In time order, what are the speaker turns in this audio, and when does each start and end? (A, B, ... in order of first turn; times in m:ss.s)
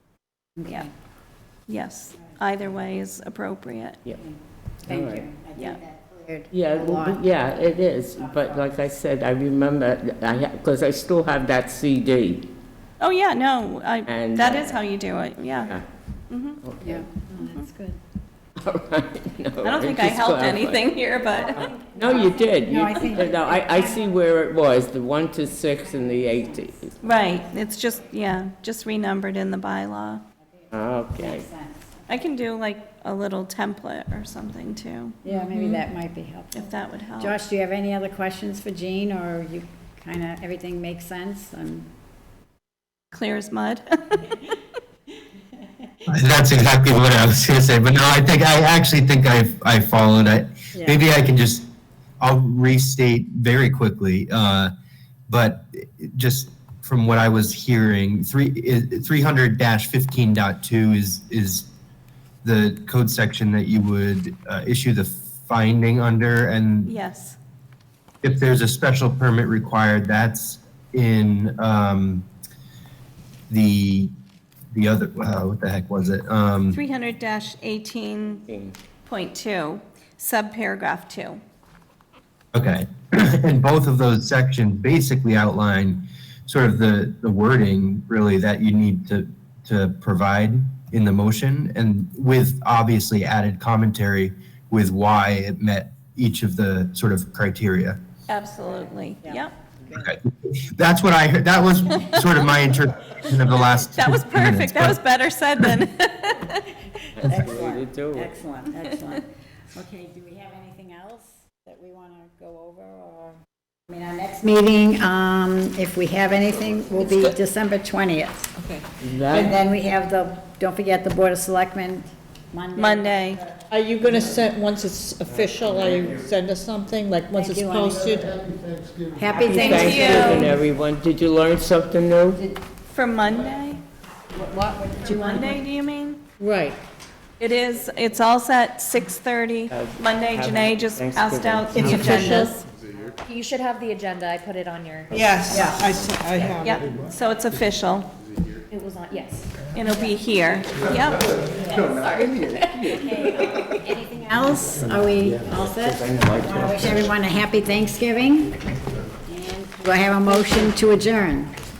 0:00.6-0:00.9 A
0:01.7-0:04.0 B
0:04.2-0:07.2 A
0:04.8-0:05.2 C
0:06.5-0:12.5 C
0:08.2-0:08.6 A
0:13.0-0:15.7 B
0:14.1-0:14.8 C
0:16.3-0:16.6 B
0:16.6-0:17.1 C
0:16.8-0:18.0 A
0:17.4-0:17.6 B
0:18.6-0:21.0 C
0:19.6-0:21.7 B
0:21.2-0:24.1 A
0:21.6-0:27.0 C
0:25.9-0:27.1 A
0:27.0-0:30.2 B
0:30.7-0:31.5 C
0:31.2-0:32.3 A
0:32.1-0:35.8 B
0:35.2-0:41.8 A
0:36.5-0:37.4 B
0:43.1-0:44.4 B
0:46.1-0:51.7 D
0:52.2-0:54.7 D
0:55.3-1:01.7 D
1:02.4-1:06.9 D
1:06.8-1:07.4 B
1:08.2-1:12.2 D
1:13.5-1:14.1 D
1:14.7-1:16.8 D
1:16.7-1:18.4 B
1:18.4-1:18.8 C
1:19.0-1:21.4 B
1:22.5-1:38.0 D
1:38.3-1:39.5 B
1:38.6-1:40.1 A
1:39.9-1:45.0 D
1:41.9-1:42.3 B
1:43.7-1:46.7 B
1:47.2-1:48.3 C
1:47.2-1:53.4 A
1:53.9-1:58.5 A
1:58.6-1:59.5 E
1:59.0-1:59.6 C
1:59.3-2:03.6 A
2:02.8-2:03.4 B
2:03.7-2:08.4 E
2:07.3-2:08.4 A
2:09.1-2:10.5 A
2:09.3-2:12.4 C
2:09.5-2:10.5 B
2:12.4-2:12.6 A
2:12.9-2:13.8 B
2:14.3-2:15.6 A
2:15.0-2:16.2 B
2:16.4-2:16.8 E
2:17.4-2:22.6 B
2:19.7-2:22.4 C
2:21.7-2:22.5 E
2:21.8-2:22.5 A
2:23.2-2:25.8 F
2:25.1-2:26.8 E
2:25.5-2:25.8 A
2:26.6-2:28.1 B
2:28.7-2:29.6 F
2:29.7-2:31.3 B
2:31.5-2:32.0 A
2:32.8-2:38.6 A
2:36.0-2:36.5 C
2:39.3-2:41.5 A